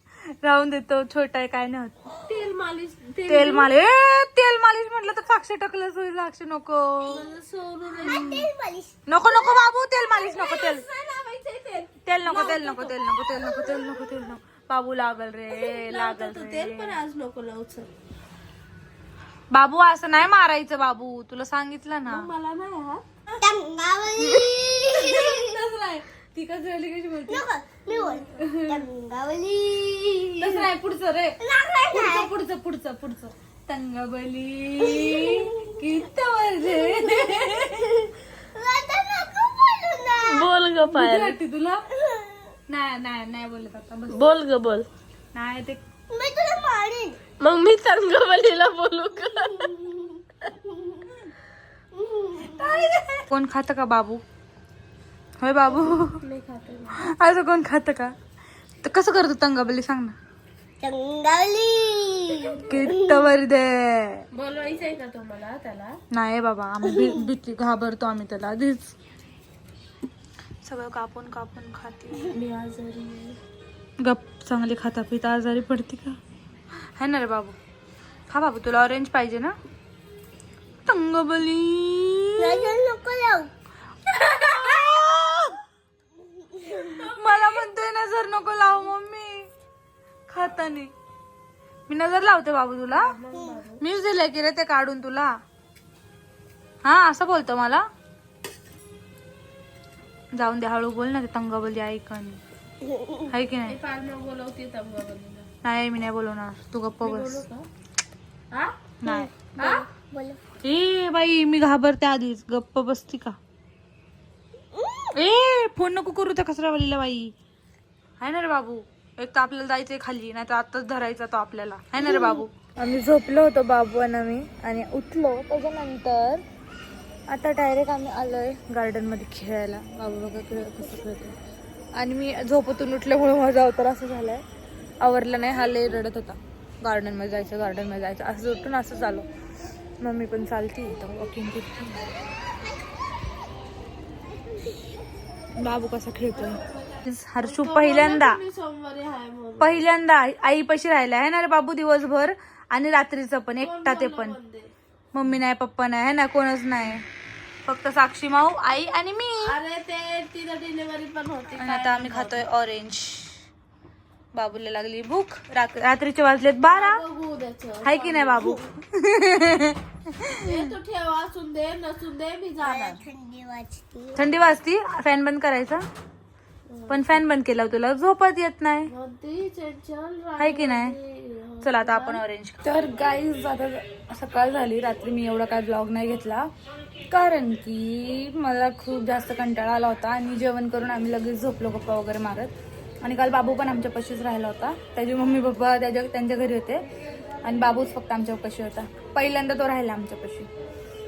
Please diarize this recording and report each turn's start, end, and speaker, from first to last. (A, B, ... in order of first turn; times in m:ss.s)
0:00.3-0:02.0 A
0:02.2-0:03.7 B
0:03.2-0:07.2 A
0:07.1-0:08.5 B
0:08.0-0:08.9 C
0:09.1-0:10.8 A
0:10.0-0:13.9 B
0:12.0-0:17.0 A
0:15.5-0:17.9 B
0:19.5-0:22.3 A
0:22.0-0:23.0 B
0:23.4-0:25.5 C
0:24.3-0:27.5 A
0:27.3-0:30.7 C
0:28.5-0:28.8 B
0:30.4-0:31.4 A
0:31.4-0:32.3 C
0:31.9-0:38.0 A
0:34.8-0:35.5 C
0:36.8-0:37.9 C
0:38.5-0:40.5 C
0:40.2-0:41.4 B
0:40.8-0:41.9 A
0:42.7-0:44.2 A
0:44.1-0:44.9 B
0:45.3-0:45.8 A
0:46.1-0:47.2 C
0:47.4-0:50.5 B
0:52.3-0:52.6 C
0:52.4-0:52.8 B
0:53.3-0:54.2 A
0:55.4-0:56.2 A
0:56.2-0:57.0 B
0:57.0-0:58.1 A
0:58.8-1:00.1 A
1:00.8-1:03.2 C
1:02.6-1:04.2 A
1:04.3-1:06.0 B
1:06.1-1:09.0 A
1:10.6-1:12.4 A
1:12.2-1:13.4 B
1:14.0-1:16.2 A
1:17.0-1:17.5 A
1:18.3-1:19.5 A
1:20.9-1:22.7 A
1:22.4-1:23.5 C
1:24.0-1:25.6 A
1:26.7-1:27.6 B
1:26.8-1:29.5 A
1:30.3-1:30.9 A
1:31.9-1:33.1 A
1:32.9-1:33.8 B
1:33.8-1:35.4 A
1:36.8-1:37.9 A
1:40.3-1:42.4 A
1:43.3-1:43.8 A
1:43.6-1:45.5 B
1:45.6-1:47.4 A
1:47.0-1:47.6 B
1:49.0-1:49.8 A
1:49.5-1:49.9 B
1:49.9-1:50.4 C
1:50.6-1:53.4 A
1:54.8-1:55.1 C
1:55.1-1:57.3 A
1:58.2-2:06.4 A
2:07.3-2:11.4 A
2:12.0-2:14.4 A
2:15.0-2:19.3 A
2:20.0-2:22.1 A
2:25.5-2:28.4 A
2:26.4-2:26.8 B
2:27.4-2:29.8 B
2:29.6-2:34.4 A
2:33.6-2:34.7 B
2:35.1-2:37.0 A
2:37.6-2:39.5 A
2:39.4-2:42.4 B
2:41.6-2:43.5 A
2:44.3-2:47.0 A
2:46.7-2:48.6 B
2:47.8-2:50.6 A
2:50.3-2:53.1 B
2:52.6-2:54.2 C
2:54.1-2:55.8 A
2:56.7-2:57.2 B
2:56.9-2:58.9 A
2:58.9-3:02.2 B
3:00.4-3:01.0 A
3:01.6-3:06.5 A
3:07.1-3:16.9 A
3:17.4-3:20.5 A